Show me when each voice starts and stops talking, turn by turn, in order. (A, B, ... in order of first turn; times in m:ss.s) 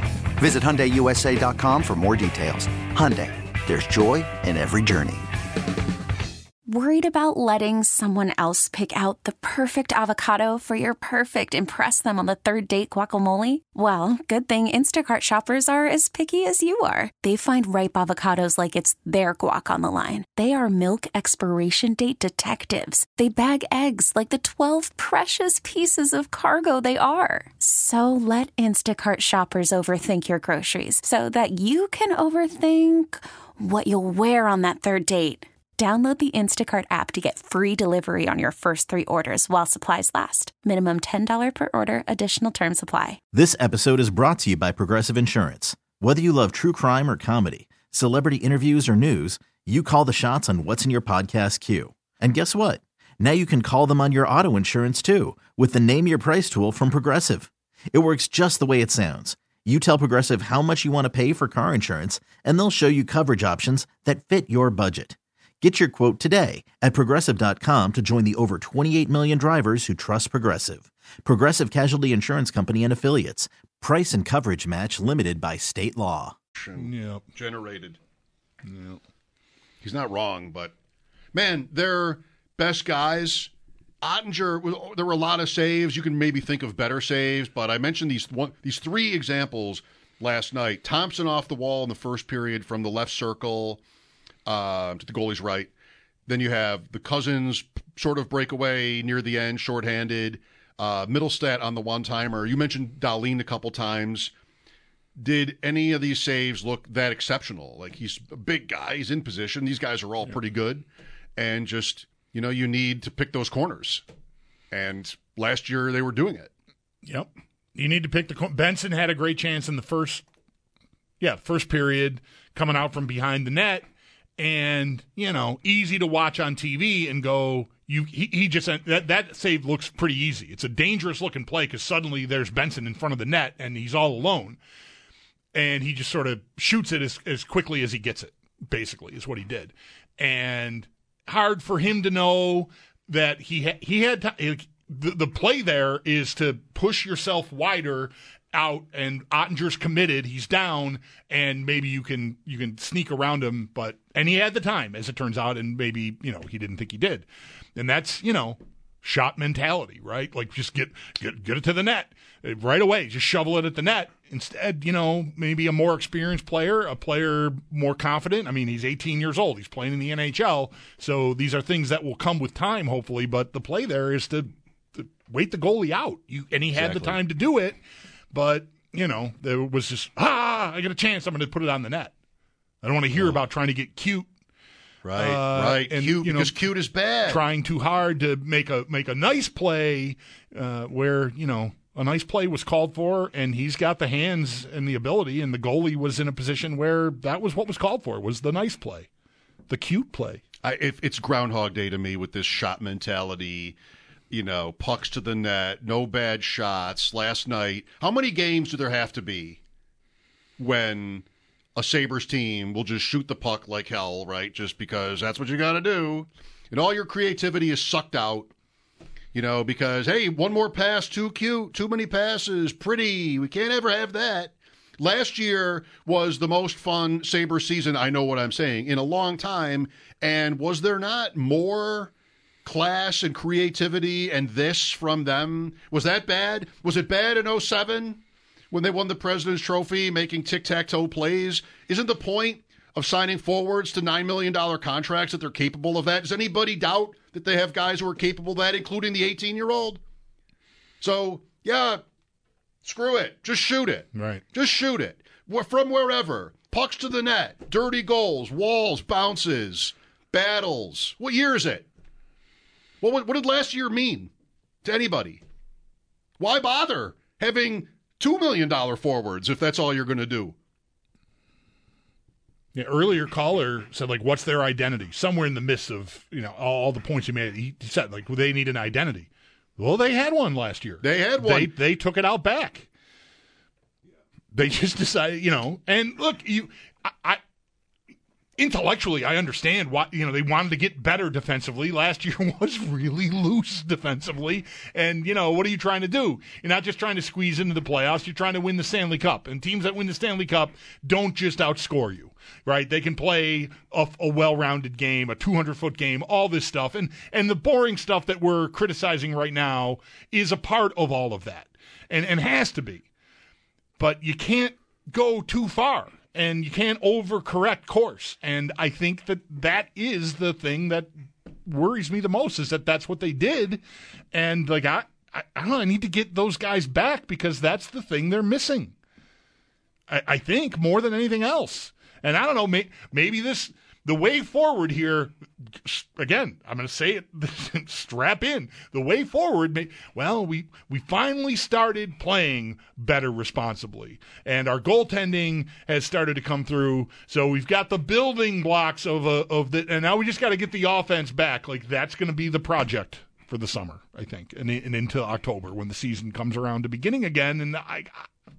0:00.4-0:05.3 A
0:06.7-0:43.2 B
0:43.3-1:16.4 C
1:16.6-1:18.0 D
1:16.8-1:17.2 E
1:18.6-1:19.0 E
1:19.8-1:20.7 D
1:21.3-1:23.5 D
1:24.0-1:33.8 D
1:34.5-1:35.7 D
1:36.3-1:44.3 D
1:45.2-1:50.8 D
1:51.4-1:54.0 D
1:54.7-1:56.5 D
1:57.0-2:00.2 E
2:01.2-2:03.9 E
2:04.4-2:14.6 E
2:15.5-2:57.8 E
2:56.7-2:57.2 D
2:58.3-3:02.1 E
3:02.8-3:04.3 E
3:05.0-3:07.4 D
3:05.1-3:06.6 E
3:07.3-3:19.1 E
3:19.7-3:20.4 E
3:20.6-3:23.8 D
3:24.3-3:29.6 D
3:30.6-3:38.5 D
3:39.3-3:52.1 D
3:52.6-4:10.0 D
4:11.0-4:12.0 D
4:12.8-4:21.9 D
4:14.2-4:14.4 E
4:23.0-4:24.3 D
4:24.8-4:25.4 D
4:26.4-4:30.6 D
4:32.8-4:42.9 E
4:41.0-4:41.7 D
4:44.5-4:47.4 E
4:48.6-5:13.0 E
5:14.0-5:21.1 E
5:21.6-5:23.8 E
5:24.3-5:29.0 E
5:30.1-5:58.3 E